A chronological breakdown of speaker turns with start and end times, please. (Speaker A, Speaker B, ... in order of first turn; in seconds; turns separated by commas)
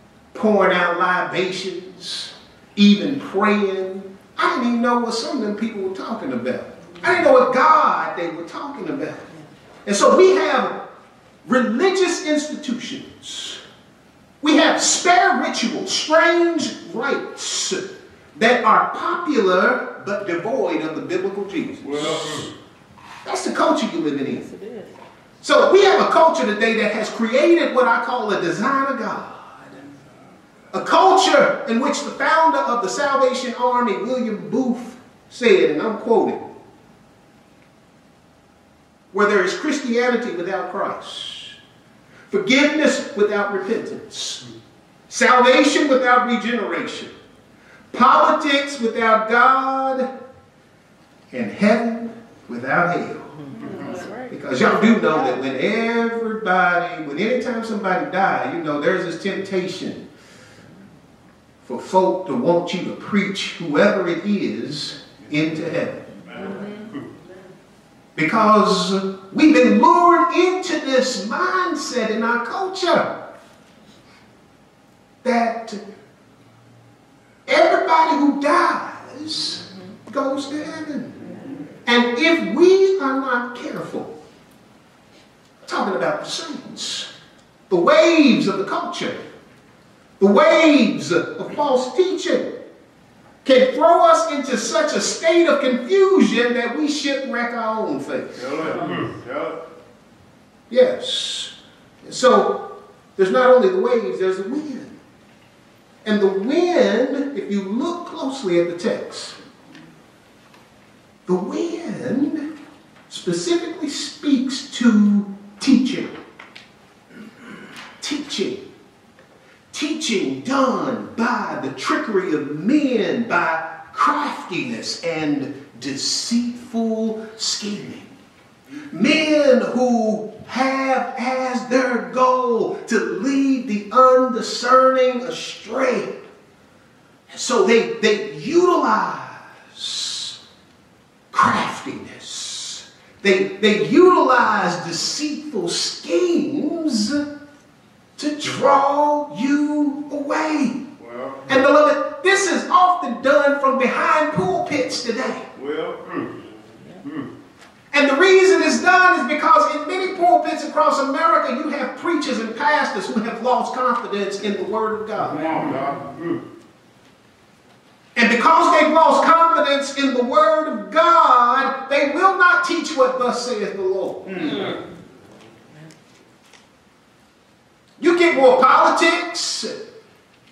Speaker A: 0.3-9.3, Speaker A: 9.8-10.7, Speaker A: 11.4-13.6, Speaker A: 14.4-17.8, Speaker A: 18.3-22.5, Speaker B: 21.8-22.5, Speaker A: 23.2-24.4, Speaker C: 24.3-24.9, Speaker A: 25.4-29.7, Speaker A: 30.7-36.5, Speaker A: 39.1-41.5, Speaker A: 42.3-44.5, Speaker A: 45.1-47.1, Speaker A: 47.9-50.1, Speaker A: 51.3-53.3, Speaker C: 53.5-55.1, Speaker A: 54.3-60.0, Speaker A: 61.6-66.1, Speaker B: 66.3-66.5, Speaker A: 68.2-73.1, Speaker A: 75.2-75.8, Speaker A: 77.5-81.2, Speaker A: 81.8-84.1, Speaker A: 85.7-87.1, Speaker A: 87.7-89.2, Speaker A: 90.2-92.5, Speaker A: 93.4-98.5, Speaker B: 98.3-99.6, Speaker A: 100.7-102.6, Speaker A: 103.2-105.0, Speaker A: 106.0-109.4, Speaker A: 111.2-112.5, Speaker A: 113.1-116.2, Speaker A: 118.0-118.6, Speaker A: 119.7-128.1, Speaker A: 128.9-136.1, Speaker A: 137.3-140.4, Speaker A: 141.3-147.2, Speaker A: 148.2-150.8, Speaker B: 151.0-151.4, Speaker A: 151.5-155.4, Speaker B: 155.5-156.3, Speaker A: 157.9-165.4, Speaker B: 165.2-166.3, Speaker A: 168.2-174.3, Speaker B: 174.2-174.7, Speaker A: 178.0-179.7